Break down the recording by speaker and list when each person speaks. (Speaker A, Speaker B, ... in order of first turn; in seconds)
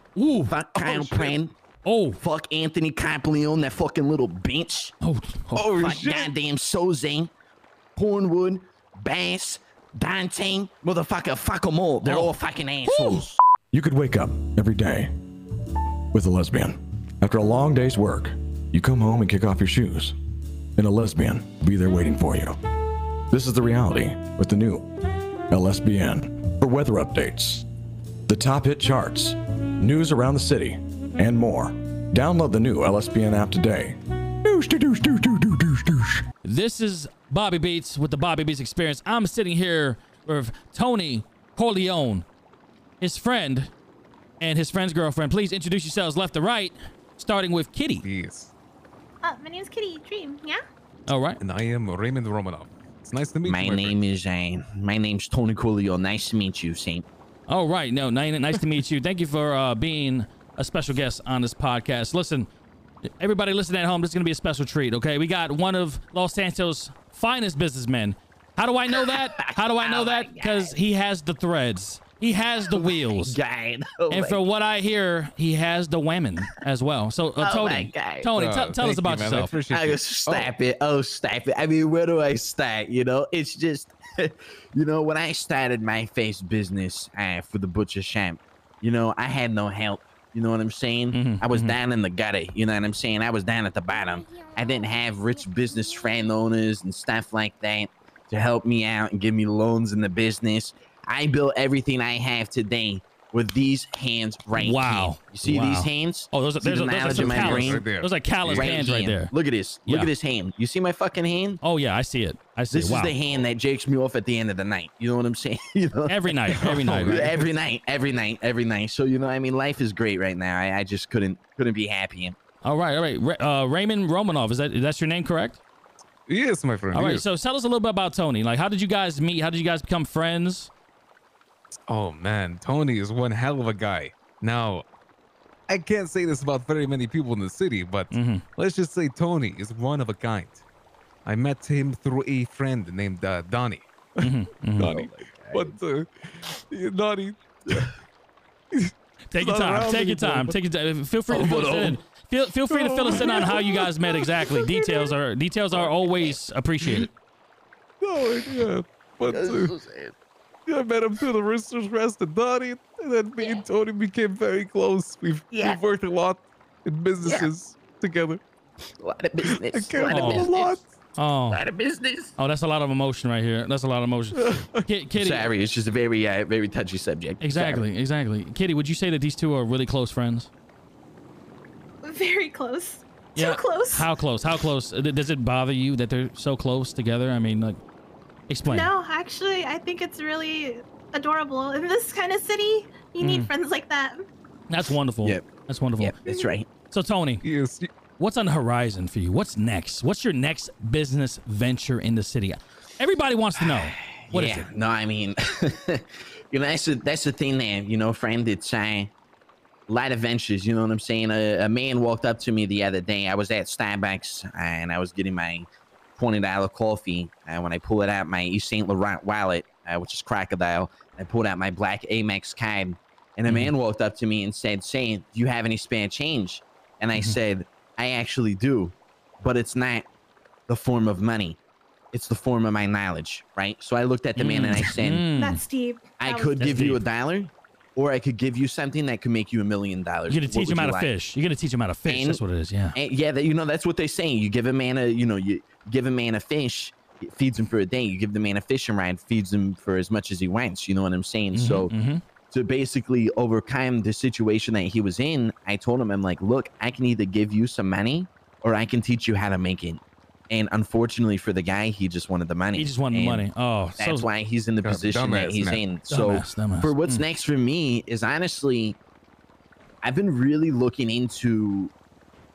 Speaker A: 0.2-0.6, 1.9-2.2, 5.0-5.7, 12.0-12.3, 12.9-13.3, 36.4-42.2, 43.0-43.7, 44.4-48.0, 51.1-51.4, 57.5-62.5, 63.2-73.4, 74.1-79.6, 91.1-91.8, 104.5-109.3, 111.6-113.2, 116.1-117.3, 122.6-125.6, 126.9-130.7, 138.1-138.4, 144.2-144.9, 149.3-157.1, 170.1-170.5, 171.2-171.6, 172.4-175.5, 177.4-180.5, 183.4-187.8, 188.5-188.9, 193.2-193.5, 194.7-196.2, 196.9-197.4, 198.2-204.7, 223.5-223.7, 234.4-235.6, 236.6-237.0, 240.3-243.0, 251.5-252.2, 262.7-264.3, 266.1-267.2
Speaker B: 0.5-1.5, 2.2-4.9, 5.8-7.3, 8.0-13.3, 53.4-57.0, 68.9-70.8, 72.7-74.4, 77.4-78.3, 79.7-107.8, 108.5-111.6, 112.7-122.4, 144.8-145.8, 151.3-152.0, 159.3-160.2, 165.5-165.8, 167.2-167.5, 169.0-170.8, 171.5-172.3, 175.2-177.8, 196.0-196.7, 203.6-209.1, 209.9-230.1, 230.7-231.6, 232.1-235.3, 236.2-241.1, 242.1-242.4, 242.9-251.9, 252.5-263.4, 264.0-269.0, 270.0-271.9
Speaker C: 0.8-1.4, 5.5-6.3, 48.0-48.5, 51.4-54.0, 78.3-80.5, 107.0-108.8, 116.5-117.5, 126.3-127.3, 131.9-134.8, 135.7-140.6, 141.3-147.9, 148.7-150.6, 152.7-154.8, 156.8-157.1, 158.0-159.7, 160.7-168.4, 169.4-170.9, 174.3-174.8, 197.4-197.9, 264.8-265.8
Speaker D: 13.7-15.1, 16.1-20.1, 20.8-22.6, 23.3-24.9, 25.5-27.7, 28.3-36.2
Speaker E: 49.2-50.6, 182.0-184.1, 188.7-194.2, 235.3-236.6